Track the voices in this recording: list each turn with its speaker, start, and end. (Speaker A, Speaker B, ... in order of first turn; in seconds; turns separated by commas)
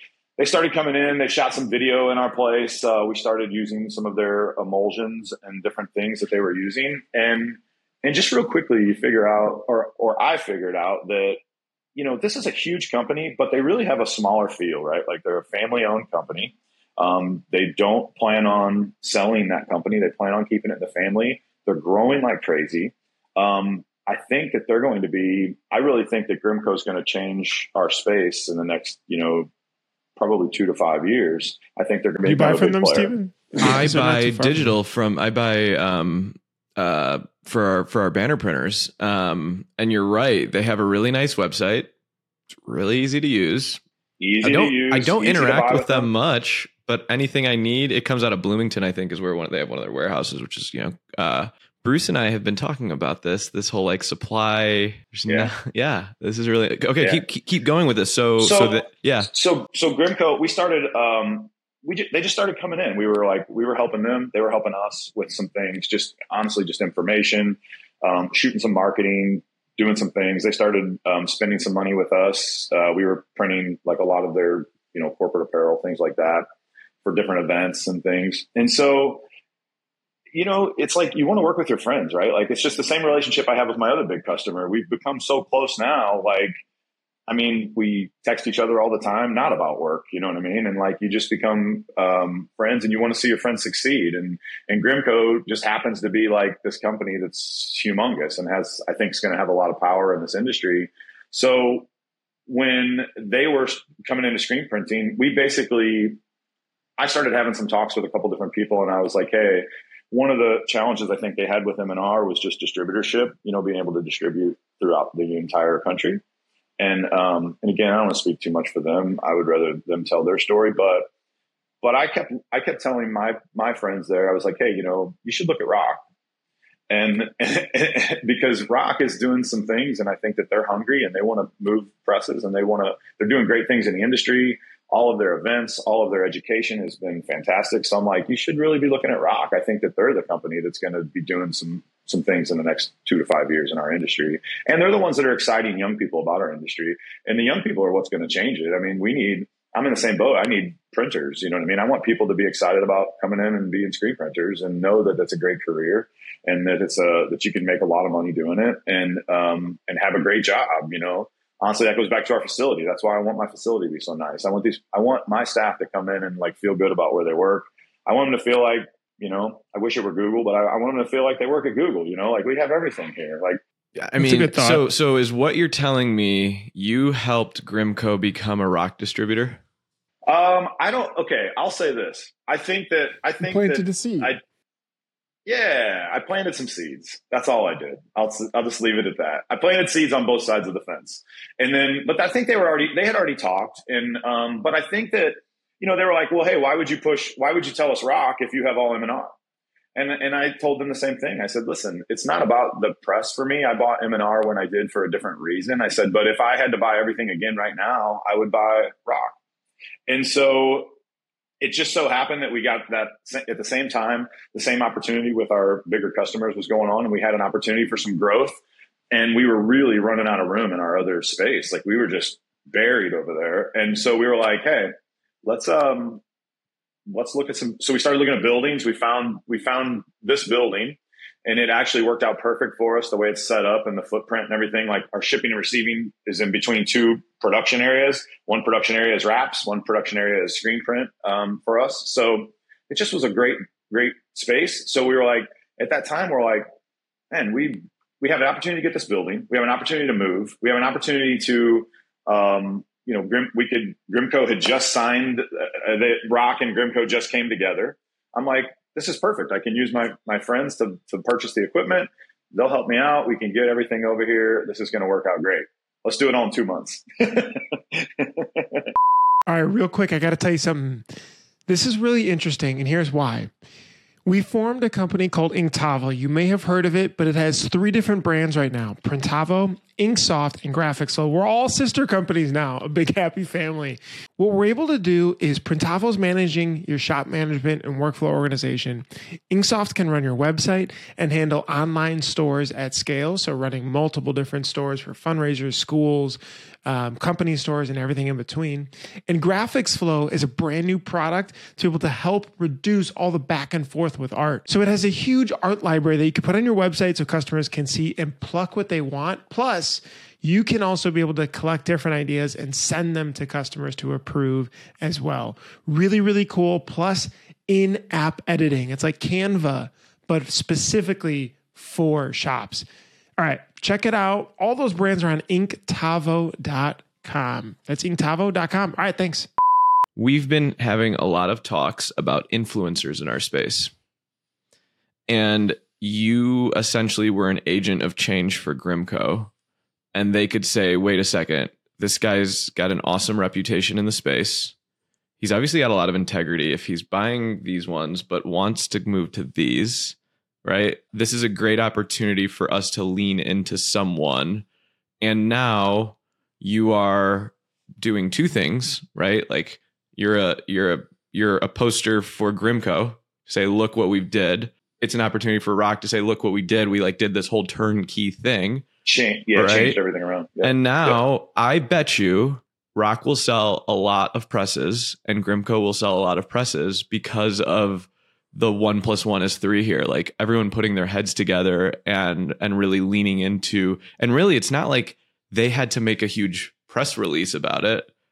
Speaker A: 0.4-11.4, Speaker A: 11.9-29.5, Speaker A: 30.2-33.1, Speaker B: 32.2-34.8, Speaker C: 33.6-41.9, Speaker C: 42.6-43.8, Speaker A: 44.2-46.1, Speaker C: 44.4-59.3, Speaker A: 58.4-76.5, Speaker A: 77.0-79.2, Speaker A: 80.3-86.5, Speaker A: 87.3-101.9, Speaker A: 102.5-106.2, Speaker A: 107.0-116.2, Speaker A: 116.8-121.1, Speaker A: 121.8-126.0, Speaker A: 126.9-173.6, Speaker C: 174.0-179.6, Speaker B: 174.2-174.9, Speaker A: 180.3-184.4, Speaker B: 183.4-184.3, Speaker A: 185.5-199.3, Speaker A: 199.9-209.3, Speaker A: 210.1-210.9, Speaker A: 211.6-218.6, Speaker A: 219.1-224.9, Speaker A: 225.4-226.2, Speaker A: 227.1-246.7, Speaker A: 247.3-268.9, Speaker B: 269.5-271.0, Speaker B: 271.7-273.5, Speaker B: 274.2-322.9, Speaker B: 323.4-329.5, Speaker C: 330.2-333.9, Speaker C: 335.3-339.5, Speaker C: 340.1-344.8, Speaker C: 345.4-354.6, Speaker C: 355.2-368.8, Speaker A: 369.1-371.2, Speaker C: 369.6-370.0, Speaker C: 370.6-388.1